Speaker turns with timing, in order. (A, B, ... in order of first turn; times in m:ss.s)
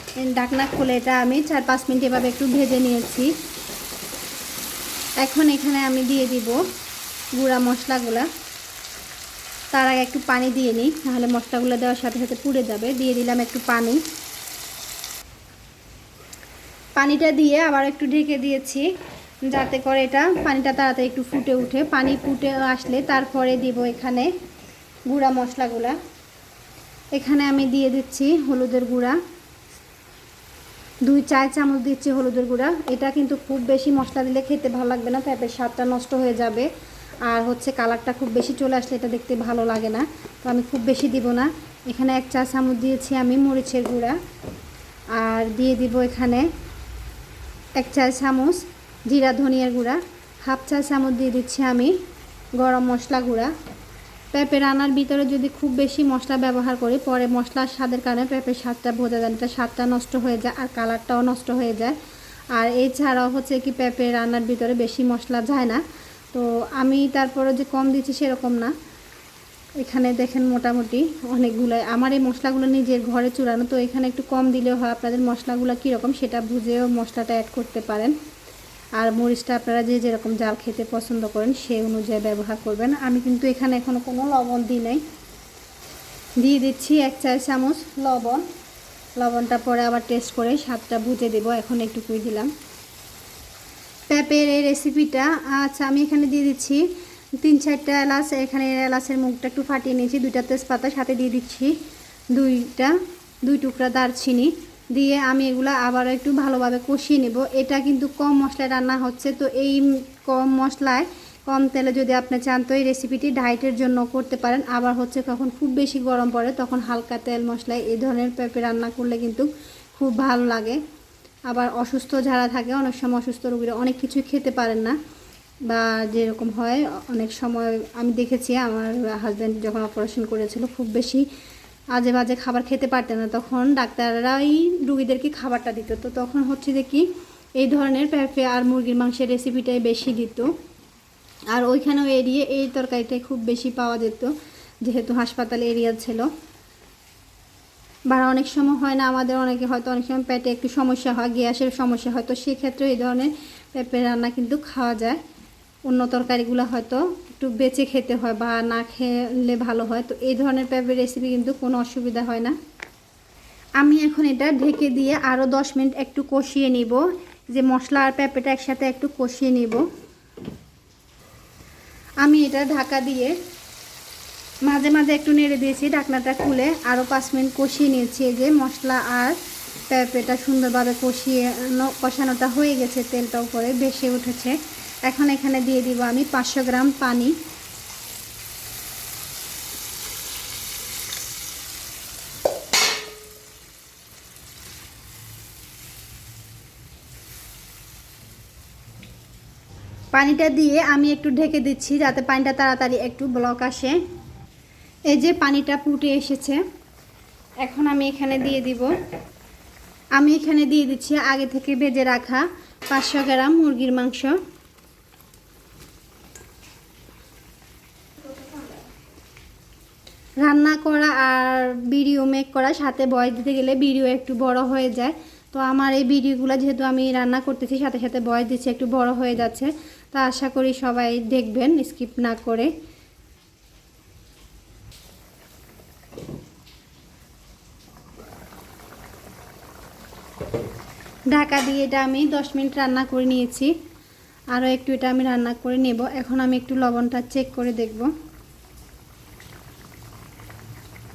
0:00.2-0:03.3 A
0:05.2-0:06.6 A
0:07.4-0:08.3 A
0:09.7-0:14.0 A
0:17.0-0:18.9 A
0:19.5-0:24.3 A
0:25.1-0:26.0 A
0:27.2-0:29.2 A
0:31.1-0:36.7 A
0:37.2-0:44.2 A
0:45.2-0:46.5 A
0:47.8-0:52.0 A
0:52.6-0:53.5 A
0:54.3-1:02.0 A
1:02.5-1:08.7 A
1:09.8-1:18.2 A
1:19.0-1:25.0 A
1:26.4-1:28.5 A
1:29.2-1:32.5 A
1:34.1-1:36.8 A
1:37.4-1:41.8 A
1:42.3-2:00.8 A
2:01.5-2:05.0 A
2:05.7-2:11.3 A
2:11.9-2:17.1 A
2:17.6-2:20.5 A
2:21.5-2:24.3 A
2:24.8-2:26.3 A
2:28.1-2:35.2 A
2:35.9-2:42.6 A
2:43.8-2:49.8 A
2:52.2-2:53.4 A
2:54.7-2:59.4 A
2:59.9-3:07.4 A
3:20.1-3:24.0 A
3:25.1-3:26.6 A
3:27.6-3:28.9 A
3:30.2-3:34.4 A
3:40.4-3:52.7 A
4:01.3-4:03.7 A
4:04.5-4:08.1 A